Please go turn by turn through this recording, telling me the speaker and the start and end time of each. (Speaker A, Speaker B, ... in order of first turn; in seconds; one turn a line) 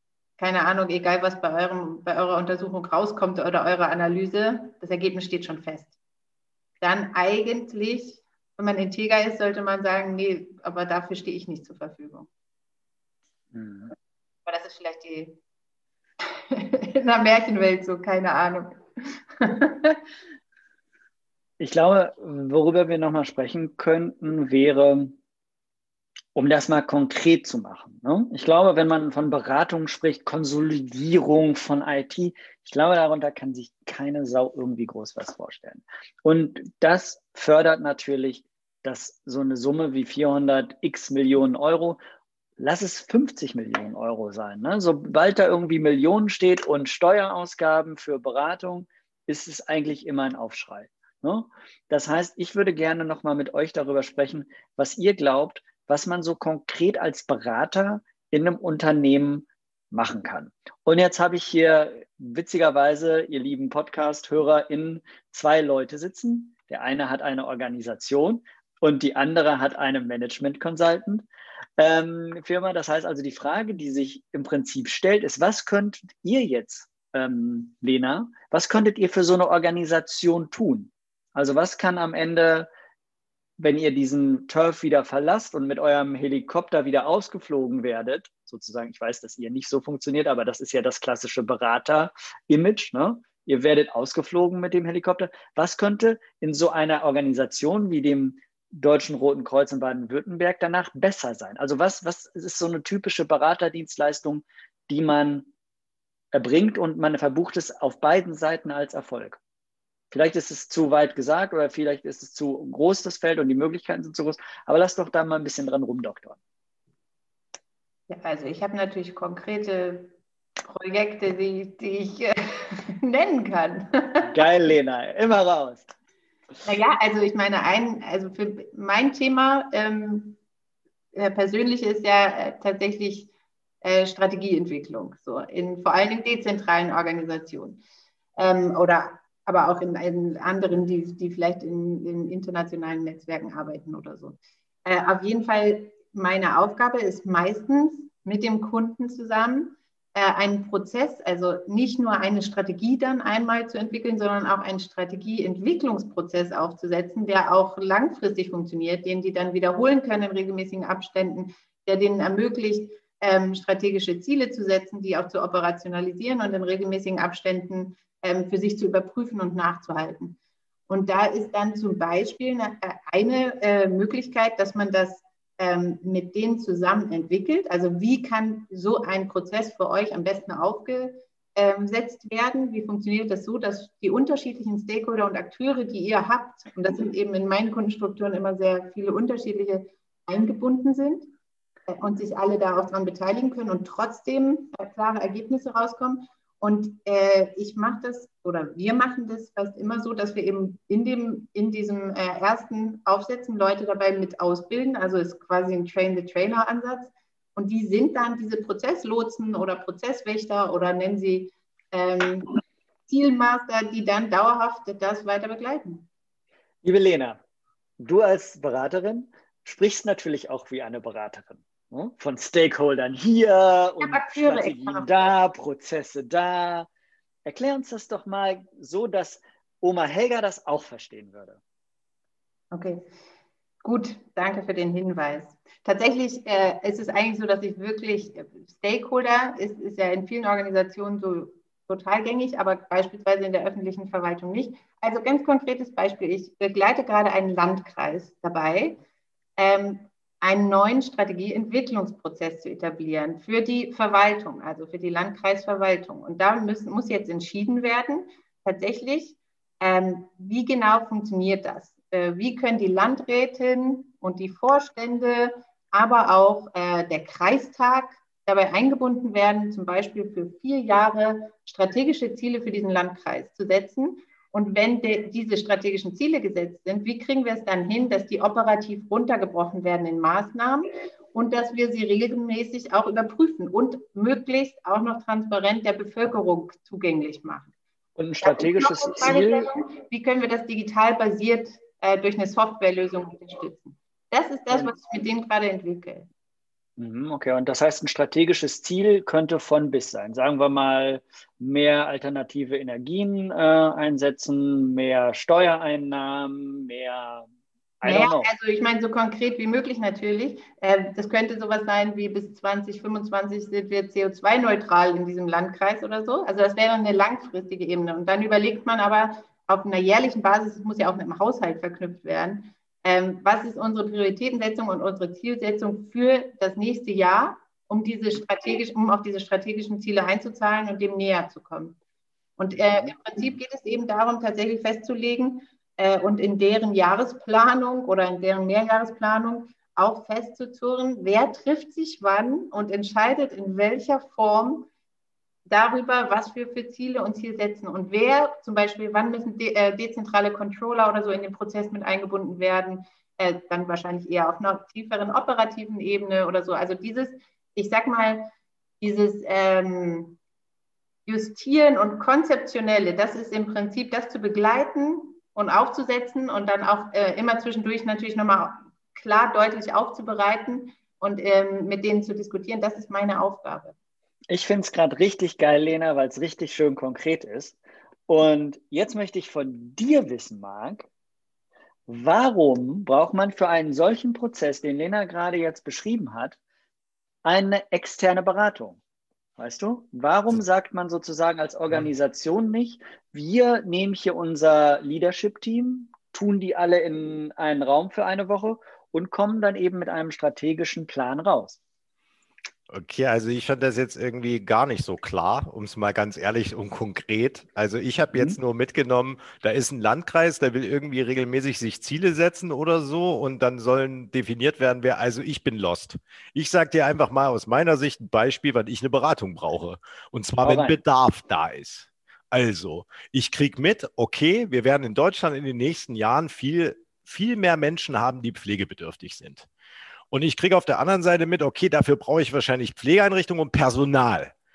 Speaker A: 0.4-6.0
Speaker A: 6.8-12.3
Speaker B: 13.5-13.9
Speaker A: 14.5-15.4
Speaker A: 16.5-20.0
Speaker B: 21.6-25.2
Speaker B: 26.4-42.0
Speaker B: 42.6-71.3
Speaker B: 71.8-82.7
Speaker B: 83.6-105.5
Speaker B: 106.3-109.4
Speaker B: 110.1-116.4
Speaker A: 118.1-120.1
Speaker A: 120.7-124.3
Speaker B: 124.3-125.9
Speaker A: 126.6-130.4
Speaker A: 131.2-137.8
Speaker A: 138.4-170.4
Speaker A: 170.9-191.3
Speaker A: 191.9-212.5
Speaker A: 213.1-216.1
Speaker B: 216.8-217.4
Speaker B: 218.0-226.9
Speaker A: 224.0-225.1
Speaker B: 227.4-231.6
Speaker A: 232.7-233.1
Speaker A: 233.8-249.0
Speaker A: 249.6-287.7
Speaker B: 288.2-289.7
Speaker A: 288.4-296.3
Speaker B: 297.0-307.5
Speaker B: 308.0-308.5
Speaker A: 308.0-332.0
Speaker A: 332.6-344.9
Speaker A: 345.7-360.4
Speaker A: 361.3-373.9
Speaker B: 374.5-381.1
Speaker B: 382.1-386.6
Speaker B: 387.4-389.0
Speaker B: 389.6-401.8
Speaker C: 402.9-429.7
Speaker B: 408.3-408.6
Speaker B: 420.6-421.0
Speaker C: 430.3-434.5